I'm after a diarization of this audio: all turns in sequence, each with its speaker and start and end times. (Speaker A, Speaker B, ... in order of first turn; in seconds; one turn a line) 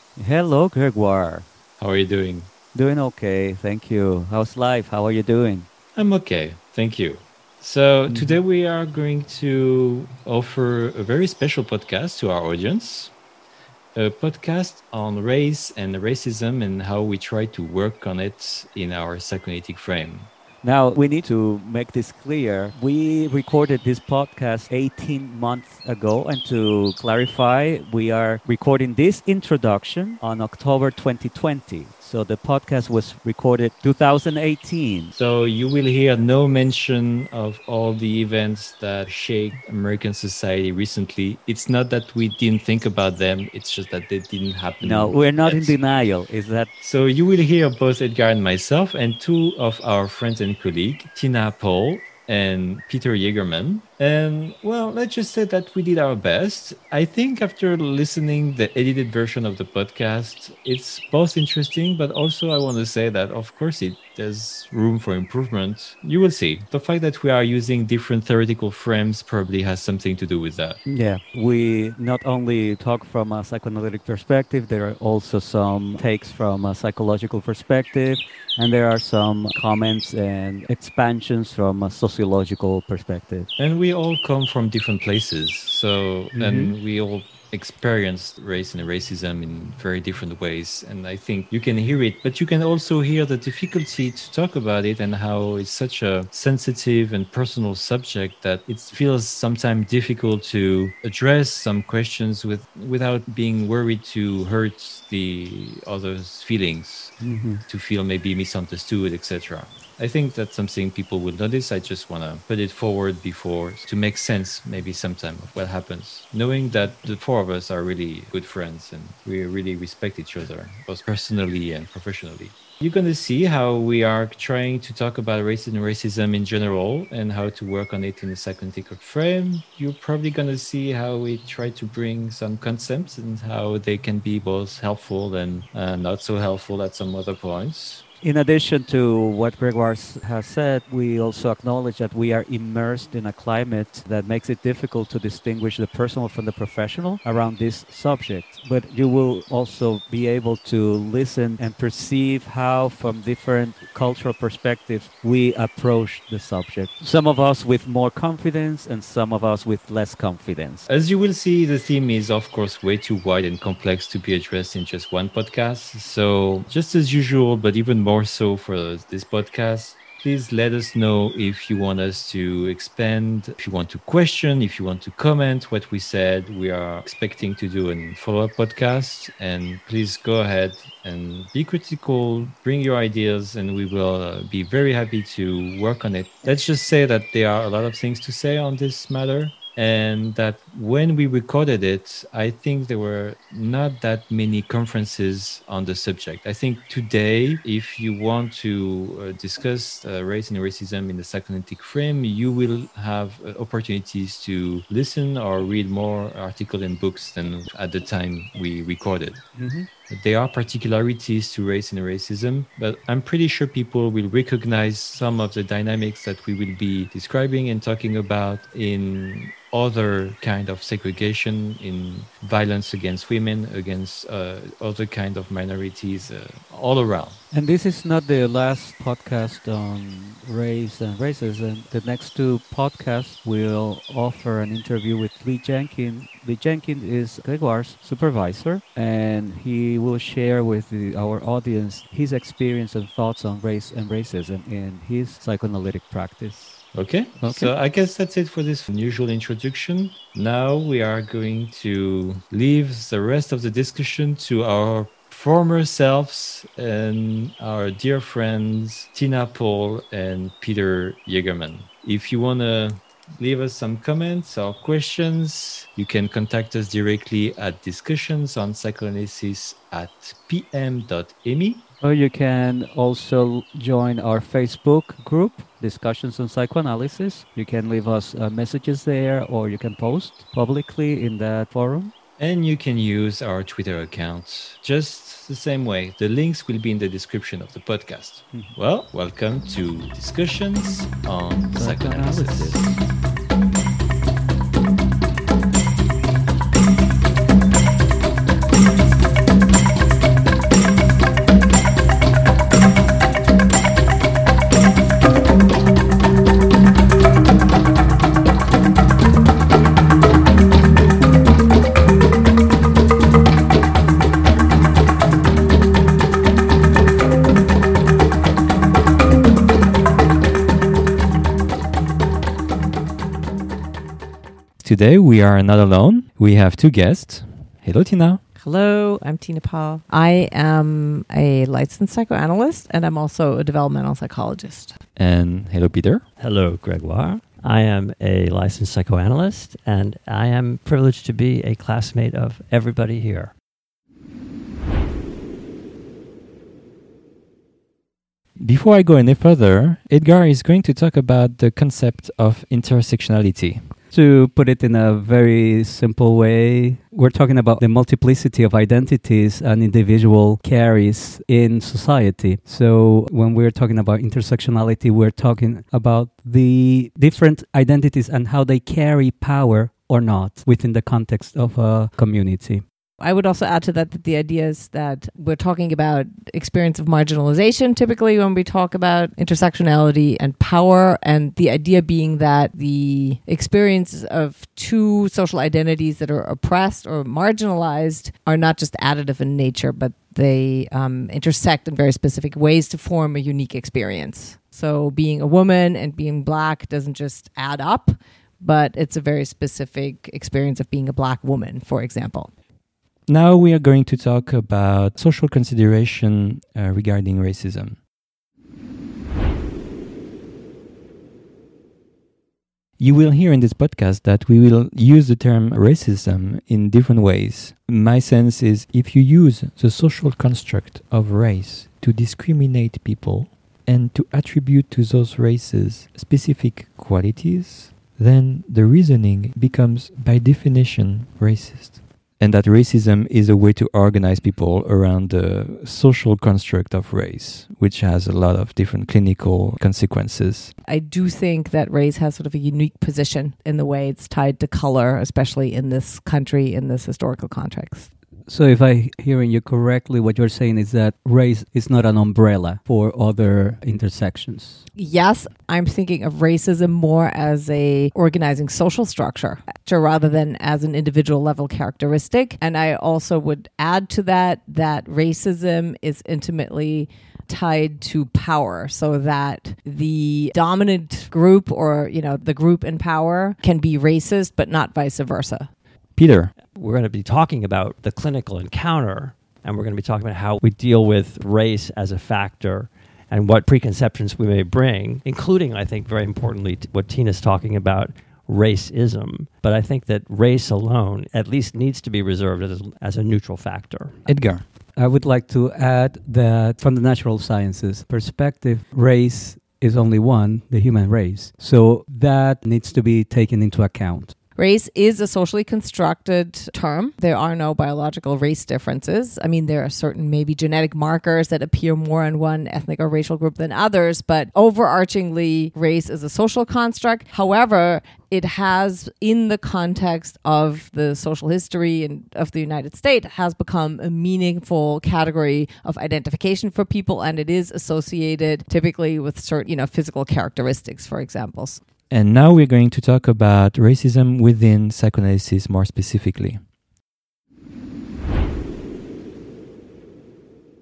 Speaker A: 0.2-1.5
Speaker B: 1.8-2.5
Speaker A: 2.7-5.7
Speaker B: 6.0-13.1
Speaker B: 13.9-20.3
Speaker A: 20.6-35.1
Speaker B: 35.1-45.8
Speaker A: 44.8-46.7
Speaker B: 46.8-70.8
Speaker A: 70.9-83.5
Speaker B: 83.6-107.2
Speaker C: 86.3-86.8
Speaker C: 107.2-107.6
Speaker B: 107.7-138.0
Speaker A: 138.2-160.9
Speaker B: 160.9-209.4
Speaker C: 209.6-209.9
Speaker B: 210.1-227.4
Speaker A: 227.5-246.9
Speaker B: 246.9-271.8
Speaker A: 247.4-247.7
Speaker A: 272.0-282.1
Speaker B: 282.4-293.0
Speaker A: 291.8-293.0
Speaker B: 324.8-328.4
Speaker D: 328.6-335.0
Speaker B: 335.2-336.2
Speaker E: 336.4-343.5
Speaker B: 348.6-353.9
Speaker C: 354.1-372.8
Speaker D: 373.2-402.5
Speaker B: 403.3-408.0
Speaker B: 413.0-440.7
Speaker D: 440.9-448.1
Speaker C: 448.5-454.9
Speaker D: 455.0-475.7
Speaker B: 476.2-476.5
Speaker E: 476.8-494.2
Speaker B: 494.3-494.6
Speaker C: 495.0-504.4
Speaker D: 504.6-531.8
Speaker B: 532.1-536.6